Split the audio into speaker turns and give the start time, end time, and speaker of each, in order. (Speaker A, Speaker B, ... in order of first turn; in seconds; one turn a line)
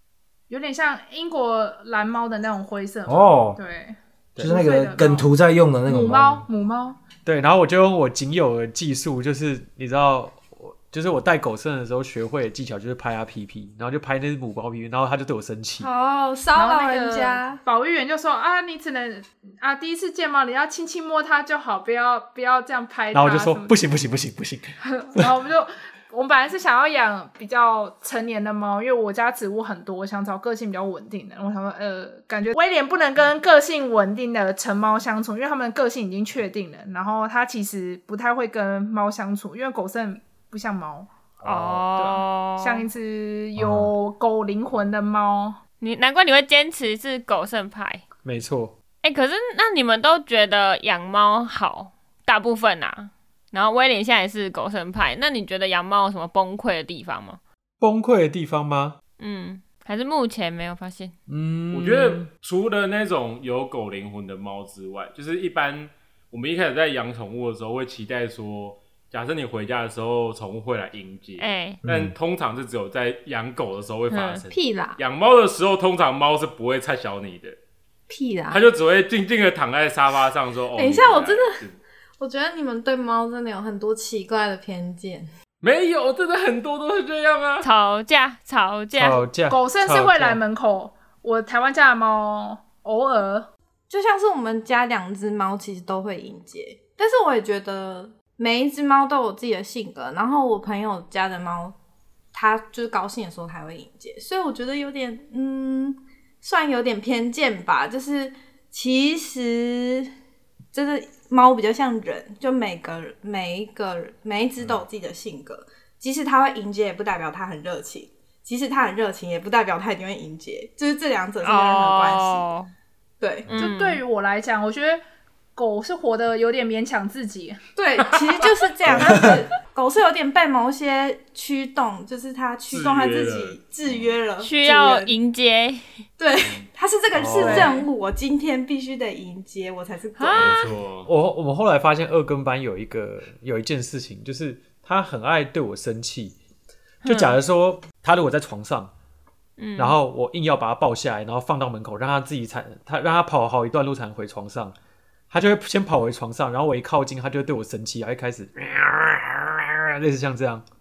Speaker A: 0.5-5.3
Speaker B: 3.1-3.6
Speaker B: 4.4-6.5
Speaker A: 5.9-7.0
Speaker C: 7.2-15.9
Speaker D: 15.8-17.6
Speaker A: 16.6-23.8
Speaker C: 23.1-25.4
Speaker A: 24.8-41.1
Speaker E: 41.4-42.9
Speaker A: 42.0-45.6
Speaker B: 43.6-43.9
Speaker E: 45.8-48.0
Speaker C: 48.2-48.7
Speaker E: 49.0-57.4
Speaker C: 57.8-59.0
Speaker E: 59.2-61.1
Speaker C: 61.3-62.3
Speaker F: 61.7-77.6
Speaker E: 71.4-71.8
Speaker B: 71.8-72.1
Speaker E: 74.1-74.5
Speaker D: 74.5-75.0
Speaker D: 78.1-78.7
Speaker F: 78.5-81.8
Speaker D: 80.8-81.6
Speaker D: 82.2-85.3
Speaker F: 85.6-87.7
Speaker E: 87.6-89.2
Speaker C: 89.0-90.4
Speaker A: 89.5-93.5
Speaker D: 93.9-101.8
Speaker D: 102.3-110.1
Speaker D: 110.7-122.5
Speaker E: 121.4-122.7
Speaker D: 123.2-123.5
Speaker E: 123.5-124.0
Speaker A: 123.6-125.0
Speaker A: 125.6-127.6
Speaker D: 127.8-135.1
Speaker A: 128.1-128.4
Speaker B: 128.9-129.4
Speaker F: 132.7-134.1
Speaker E: 134.4-135.8
Speaker D: 136.2-140.6
Speaker C: 137.2-137.7
Speaker A: 137.4-137.9
Speaker E: 140.2-140.7
Speaker F: 140.3-141.1
Speaker C: 141.1-146.4
Speaker E: 147.0-147.3
Speaker C: 147.0-148.9
Speaker E: 149.6-150.0
Speaker C: 149.8-154.8
Speaker C: 155.3-160.6